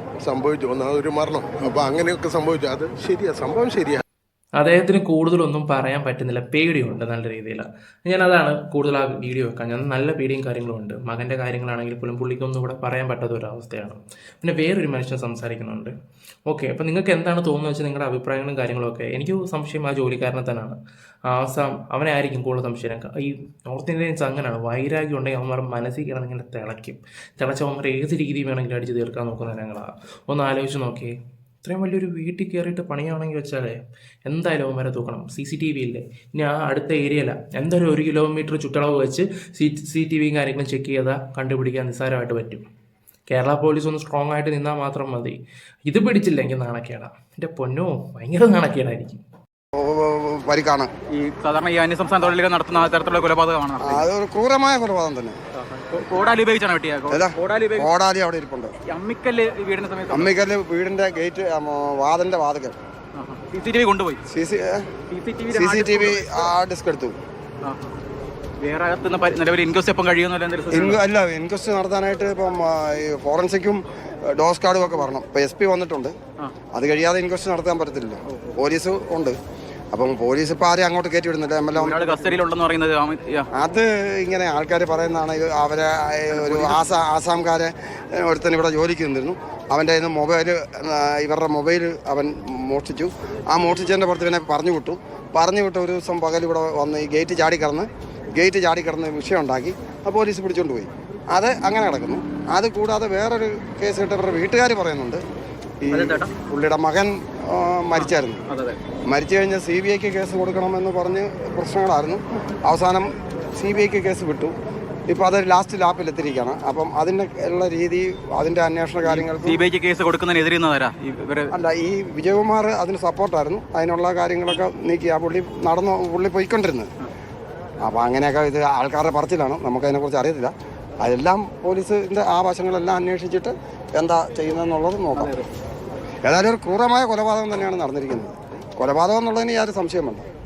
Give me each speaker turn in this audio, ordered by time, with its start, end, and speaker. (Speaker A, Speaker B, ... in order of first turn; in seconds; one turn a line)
Speaker A: 0.2-4.0
Speaker B: 4.6-15.9
Speaker B: 16.5-20.8
Speaker B: 21.3-42.6
Speaker B: 43.3-49.2
Speaker C: 49.8-50.9
Speaker D: 51.1-54.1
Speaker C: 53.8-55.4
Speaker D: 55.5-57.9
Speaker C: 57.1-58.7
Speaker D: 58.9-60.3
Speaker C: 60.1-62.8
Speaker D: 63.1-64.2
Speaker C: 64.3-64.8
Speaker D: 65.1-66.5
Speaker C: 65.5-67.2
Speaker D: 67.6-68.0
Speaker D: 68.6-71.0
Speaker C: 70.7-76.2
Speaker C: 76.7-79.4
Speaker C: 79.9-82.4
Speaker D: 81.8-83.5
Speaker C: 83.6-105.2
Speaker D: 86.3-86.8
Speaker C: 105.8-108.4
Speaker D: 105.9-106.3
Speaker D: 108.0-108.8
Speaker C: 109.1-114.5
Speaker C: 115.1-119.6
Speaker D: 119.0-121.5
Speaker C: 121.5-126.9
Speaker C: 127.9-130.5
Speaker C: 131.0-135.3
Speaker D: 135.2-135.5
Speaker C: 136.3-140.2